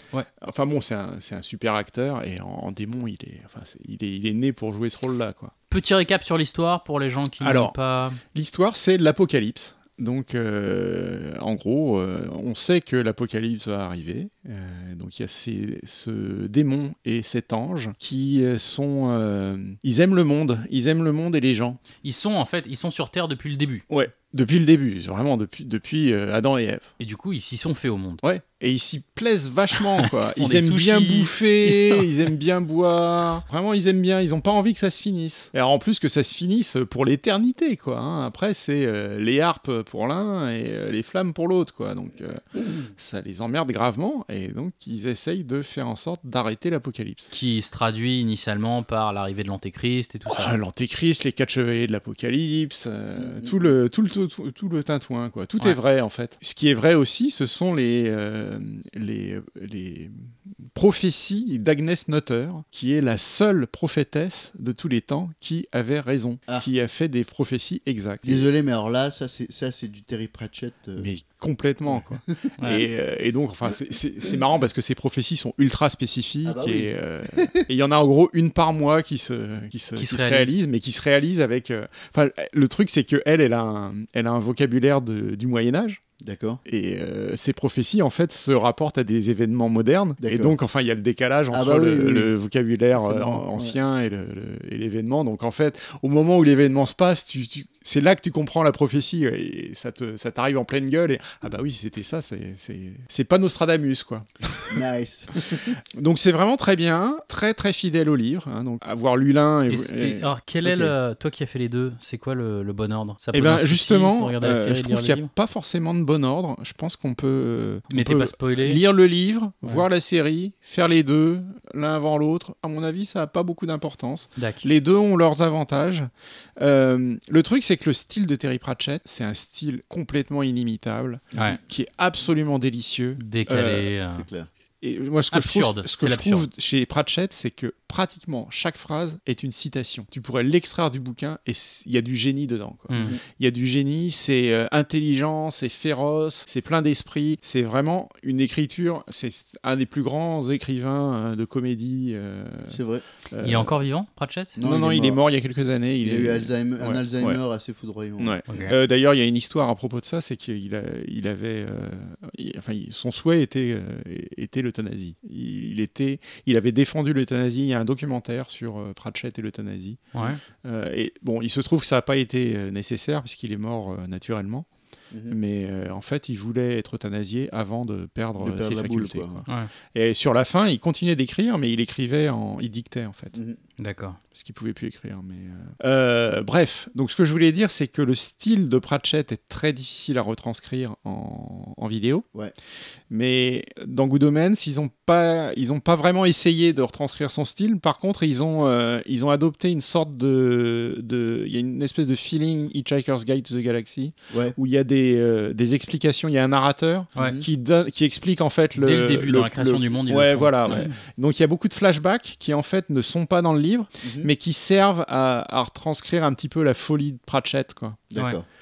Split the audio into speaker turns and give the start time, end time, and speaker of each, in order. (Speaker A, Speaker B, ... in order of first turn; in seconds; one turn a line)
Speaker A: 0.4-5.5
Speaker B: 5.7-8.2
Speaker A: 7.4-7.7
Speaker A: 8.3-21.8
Speaker B: 22.0-23.8
Speaker A: 23.9-26.9
Speaker B: 27.0-28.2
Speaker A: 28.2-47.3
Speaker B: 30.0-32.1
Speaker B: 47.3-50.5
Speaker A: 50.3-68.4
Speaker C: 53.2-53.7
Speaker C: 68.2-71.1
Speaker A: 71.0-86.0
Speaker C: 71.9-72.2
Speaker B: 72.6-72.8
Speaker C: 76.4-77.5
Speaker B: 80.0-80.5
Speaker C: 86.2-86.6
Speaker A: 86.7-104.7
Speaker C: 90.2-90.6
Speaker C: 91.5-92.3
Speaker C: 92.9-93.8
Speaker C: 104.7-105.7
Speaker A: 106.0-110.3
Speaker B: 109.7-115.3
Speaker C: 110.6-110.9
Speaker A: 113.3-133.9
Speaker B: 117.9-118.8
Speaker B: 124.4-124.7
Speaker B: 133.2-134.2
Speaker C: 134.1-134.5
Speaker A: 134.8-152.8
Speaker B: 135.3-136.5
Speaker B: 142.9-143.2
Speaker C: 142.9-143.2
Speaker C: 152.7-153.0
Speaker A: 153.3-153.7
Speaker B: 153.4-154.6
Speaker C: 154.6-155.2
Speaker A: 154.6-157.4
Speaker C: 156.0-158.4
Speaker A: 158.2-170.0
Speaker B: 170.1-170.4
Speaker A: 170.6-174.7
Speaker C: 175.1-175.4
Speaker A: 175.3-183.3
Speaker C: 178.4-179.4
Speaker C: 183.3-183.6
Speaker B: 183.8-184.2
Speaker A: 184.3-192.2
Speaker A: 193.1-218.0
Speaker C: 204.3-204.6
Speaker C: 207.2-207.5
Speaker B: 208.8-210.5
Speaker C: 214.0-214.3
Speaker C: 218.1-218.4